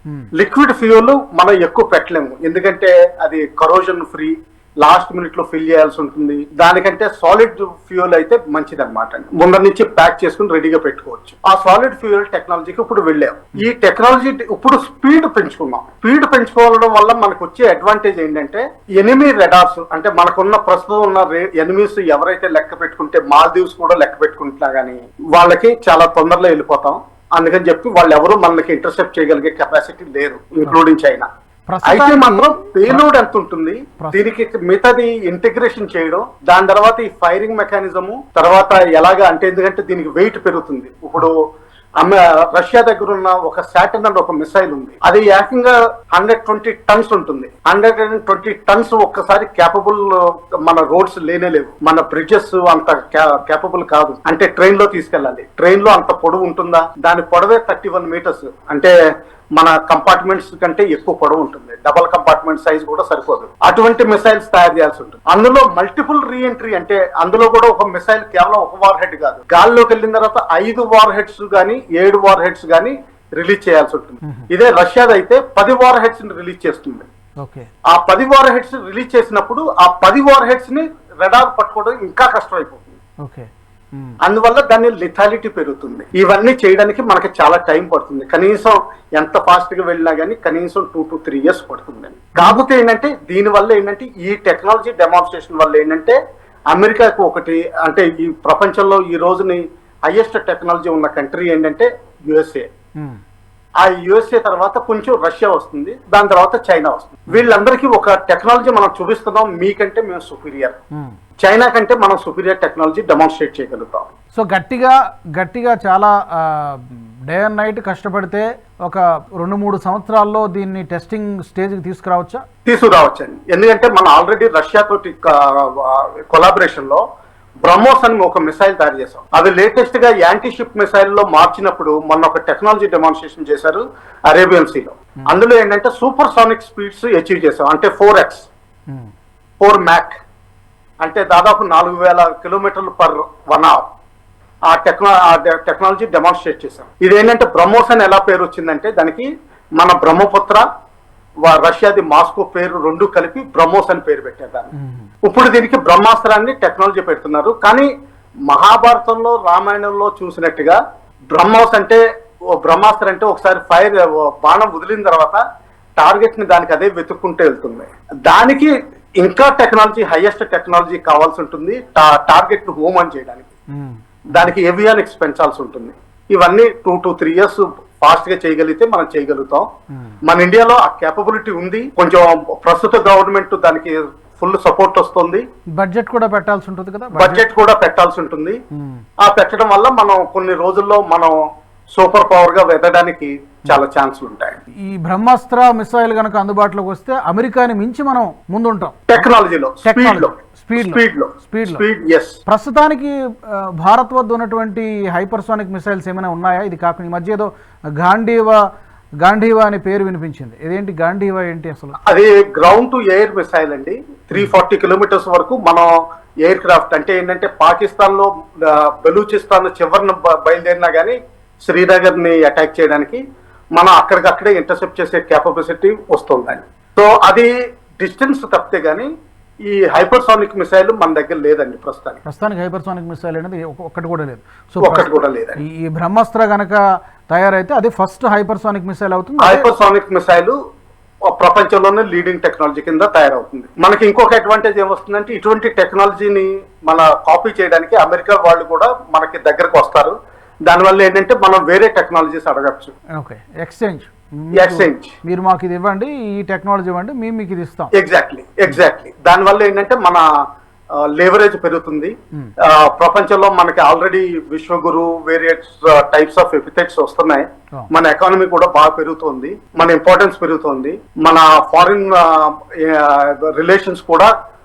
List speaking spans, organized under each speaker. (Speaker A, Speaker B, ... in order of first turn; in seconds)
Speaker A: 0.4-31.3, 31.8-41.4, 42.0-58.9, 59.6-77.1, 77.9-82.9, 84.2-96.2, 96.7-102.7, 103.8-110.8, 111.4-114.1, 122.7-127.0, 127.6-138.5, 139.6-140.2, 141.0-143.8, 144.7-150.6, 151.4-154.7, 155.2-157.9, 158.5-160.8, 161.3-162.0, 162.6-165.4, 166.0-173.5, 174.3-179.7, 180.2-185.4, 187.1-188.6, 189.2-191.3, 191.9-194.6, 199.1-202.4, 212.1-215.9, 216.4-223.2, 223.8-229.1, 229.7-232.2, 234.8-235.6, 239.4-240.6, 241.3-250.2, 250.7-252.9, 254.6-255.1, 257.9-260.2, 261.0-274.3
Speaker B: 31.7-33.0, 77.4-77.7, 83.2-84.2, 92.4-92.6, 114.4-122.4, 154.8-155.1, 173.7-174.5, 185.8-187.4, 188.7-189.0, 194.8-199.0, 199.8-201.8, 202.5-208.6, 209.2-211.9, 232.2-239.7, 253.2-257.9